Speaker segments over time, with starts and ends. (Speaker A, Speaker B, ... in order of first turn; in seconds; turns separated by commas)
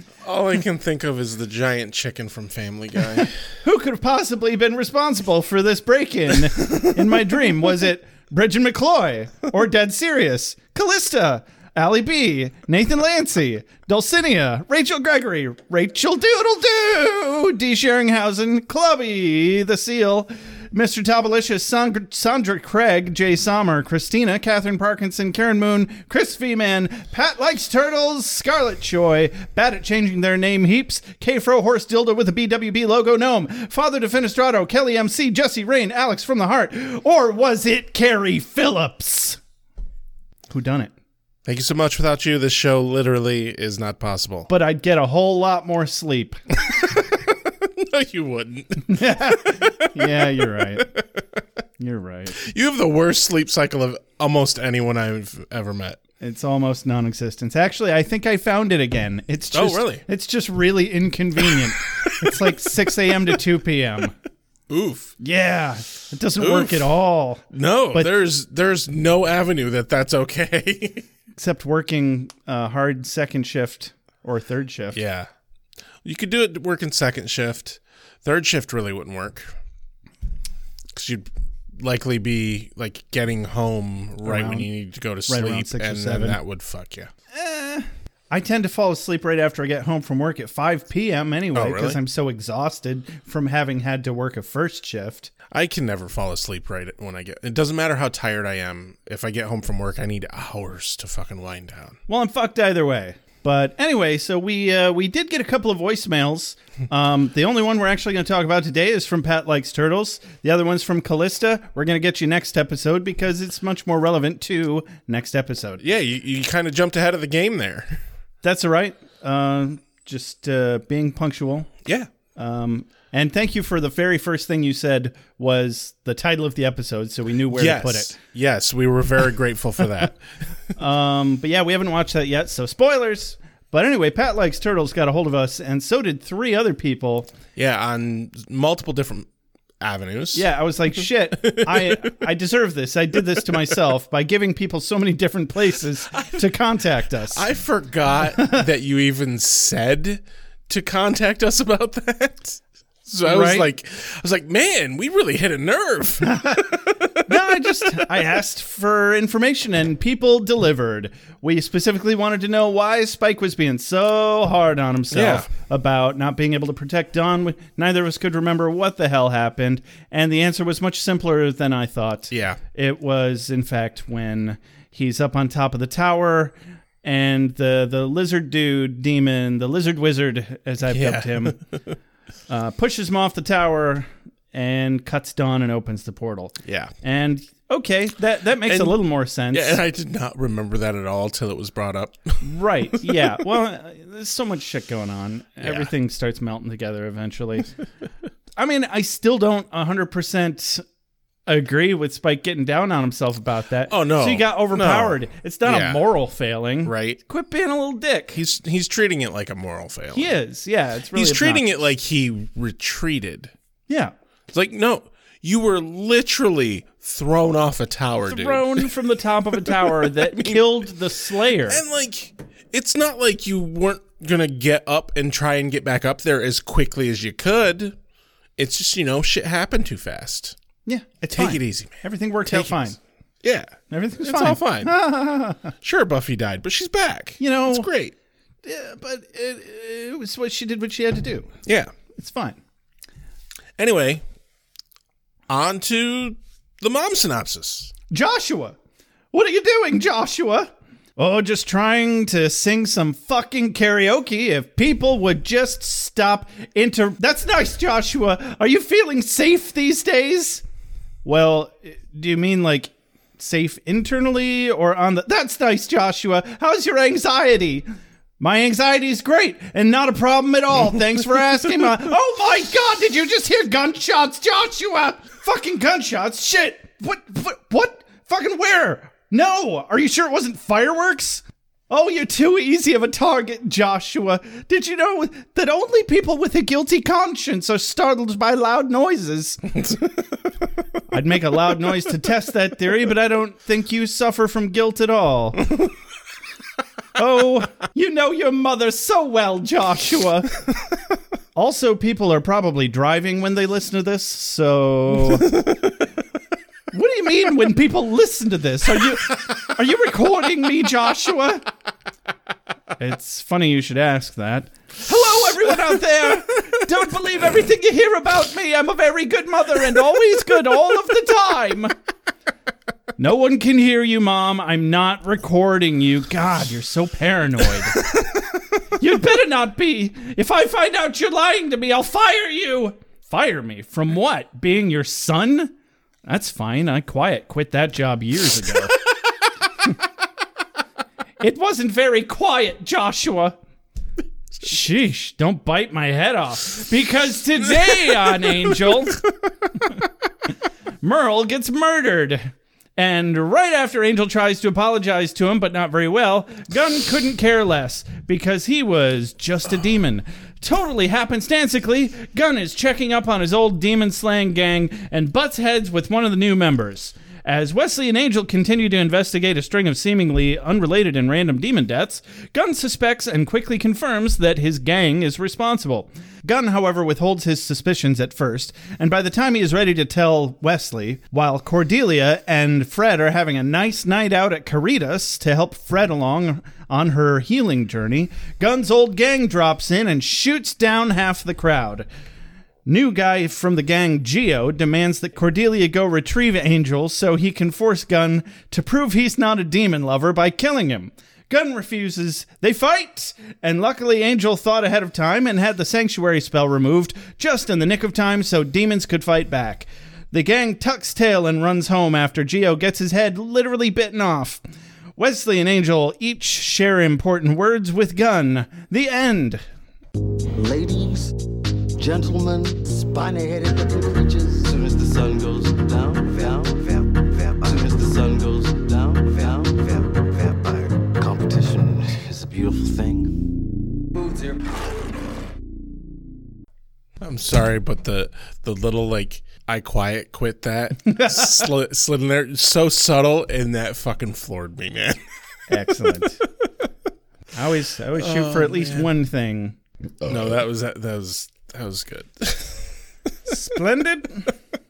Speaker A: 0.2-3.4, Speaker B: 3.6-39.4, Speaker B: 40.5-40.9, Speaker A: 41.5-44.5, Speaker B: 44.5-46.4, Speaker A: 47.5-51.2, Speaker B: 48.9-50.9, Speaker B: 51.8-52.4, Speaker A: 52.4-56.0, Speaker B: 56.2-64.1, Speaker A: 59.5-60.0, Speaker A: 61.5-62.5, Speaker A: 64.7-65.1, Speaker B: 65.2-68.1, Speaker A: 66.4-66.9, Speaker A: 67.5-71.0, Speaker B: 71.4-75.0, Speaker A: 74.9-75.3, Speaker A: 76.0-79.5, Speaker A: 80.9-87.1, Speaker B: 84.2-84.7, Speaker B: 85.3-86.4, Speaker B: 87.3-95.3, Speaker A: 91.5-92.0, Speaker A: 95.5-102.0, Speaker B: 102.1-115.8, Speaker A: 115.8-118.0, Speaker B: 118.4-121.7, Speaker A: 121.8-122.1, Speaker B: 122.4-128.2, Speaker A: 127.5-130.2, Speaker B: 130.8-137.3, Speaker A: 137.6-139.3, Speaker A: 139.8-142.1, Speaker B: 140.3-147.5, Speaker A: 143.4-143.6, Speaker A: 146.1-146.4, Speaker A: 147.3-158.1, Speaker B: 153.2-153.7, Speaker B: 156.2-181.6, Speaker A: 165.1-165.5, Speaker A: 172.3-172.6, Speaker A: 180.9-181.9, Speaker B: 182.5-189.8, Speaker A: 186.6-186.9, Speaker A: 188.6-189.0, Speaker A: 189.5-192.4, Speaker B: 192.4-197.7, Speaker A: 193.0-193.4, Speaker A: 195.6-195.9, Speaker B: 198.6-200.8, Speaker B: 201.5-208.4, Speaker A: 203.9-206.1, Speaker A: 206.8-207.2, Speaker A: 208.3-210.3, Speaker B: 210.1-211.8, Speaker A: 211.1-213.5, Speaker A: 214.5-218.9, Speaker B: 218.3-221.8, Speaker A: 219.7-220.9, Speaker A: 221.6-228.0, Speaker A: 228.6-230.6, Speaker B: 230.9-233.0, Speaker A: 231.3-234.9, Speaker B: 233.9-235.7, Speaker A: 235.8-238.1, Speaker B: 237.4-237.9, Speaker B: 238.6-241.5, Speaker A: 241.7-241.9, Speaker B: 242.2-242.6, Speaker A: 243.8-244.2, Speaker A: 245.5-247.9, Speaker B: 248.1-248.8, Speaker B: 249.3-260.6, Speaker B: 261.2-267.9, Speaker B: 268.4-289.7, Speaker A: 289.7-290.2, Speaker B: 291.1-295.7, Speaker B: 297.2-300.5, Speaker B: 301.6-305.5, Speaker B: 306.9-311.7, Speaker B: 313.0-321.9, Speaker B: 323.2-328.1, Speaker B: 329.0-335.7, Speaker B: 336.3-338.9, Speaker B: 341.4-343.6, Speaker B: 344.6-349.2, Speaker B: 351.0-392.1, Speaker B: 392.9-414.6, Speaker B: 415.2-419.6, Speaker C: 420.6-421.3, Speaker C: 422.0-433.4, Speaker A: 437.2-445.2, Speaker B: 441.0-441.7, Speaker B: 445.7-446.4, Speaker B: 447.5-449.8, Speaker A: 448.2-449.1, Speaker A: 450.2-452.9, Speaker B: 453.5-454.5